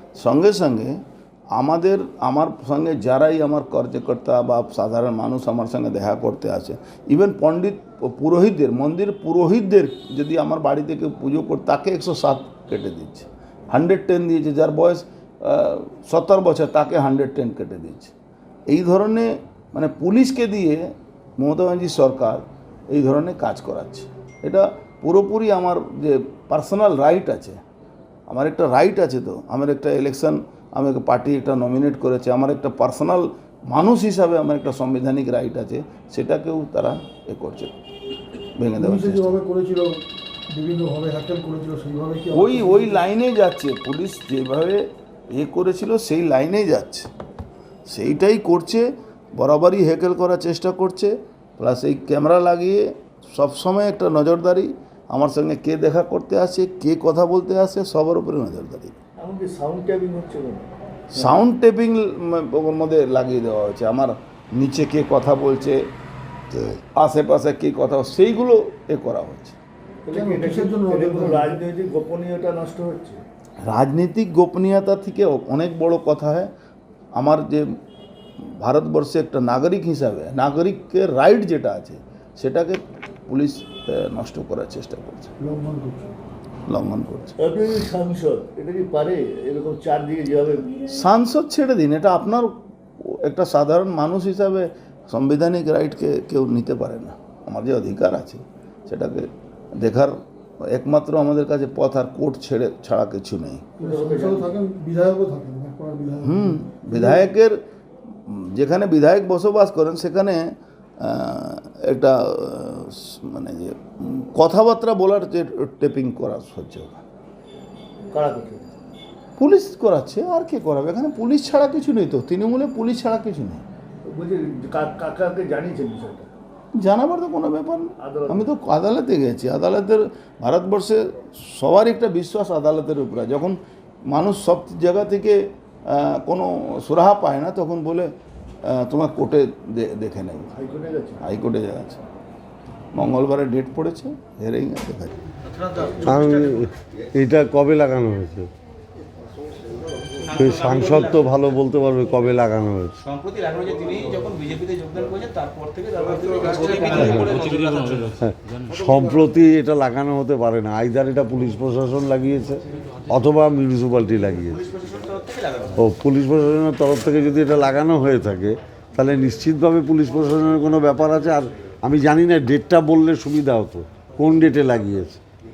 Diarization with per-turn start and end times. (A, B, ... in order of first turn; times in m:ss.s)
0:00.2-0:01.0 A
0:01.6-0:18.1 A
0:18.7-0:27.6 A
0:28.3-0:37.7 A
0:38.6-0:39.4 A
0:38.8-0:43.0 B
0:42.3-0:44.8 A
0:45.3-0:47.1 A
0:47.9-0:59.0 A
0:59.2-1:01.4 C
1:01.1-1:05.8 A
1:06.5-1:09.6 A
1:10.0-1:13.2 C
1:10.1-1:11.6 B
1:13.6-1:16.5 A
1:17.2-1:17.7 A
1:18.4-1:25.4 A
1:25.4-1:26.1 B
1:26.7-1:27.4 A
1:27.4-1:30.9 C
1:30.9-1:43.7 A
1:43.8-1:44.6 C
1:43.8-1:47.0 B
1:46.2-1:47.6 A
1:48.3-1:57.0 A
1:58.1-1:58.8 C
1:59.4-2:03.6 A
2:04.0-2:06.3 C
2:06.8-2:18.1 A
2:08.0-2:08.5 C
2:18.7-2:20.6 A
2:20.6-2:21.2 C
2:21.2-2:22.0 A
2:22.9-2:25.2 A
2:26.0-2:28.5 D
2:30.3-2:31.4 E
2:30.3-2:33.0 D
2:33.0-2:38.1 E
2:36.9-2:37.4 D
2:38.2-2:44.6 D
2:44.5-2:45.8 E
2:45.8-2:55.2 D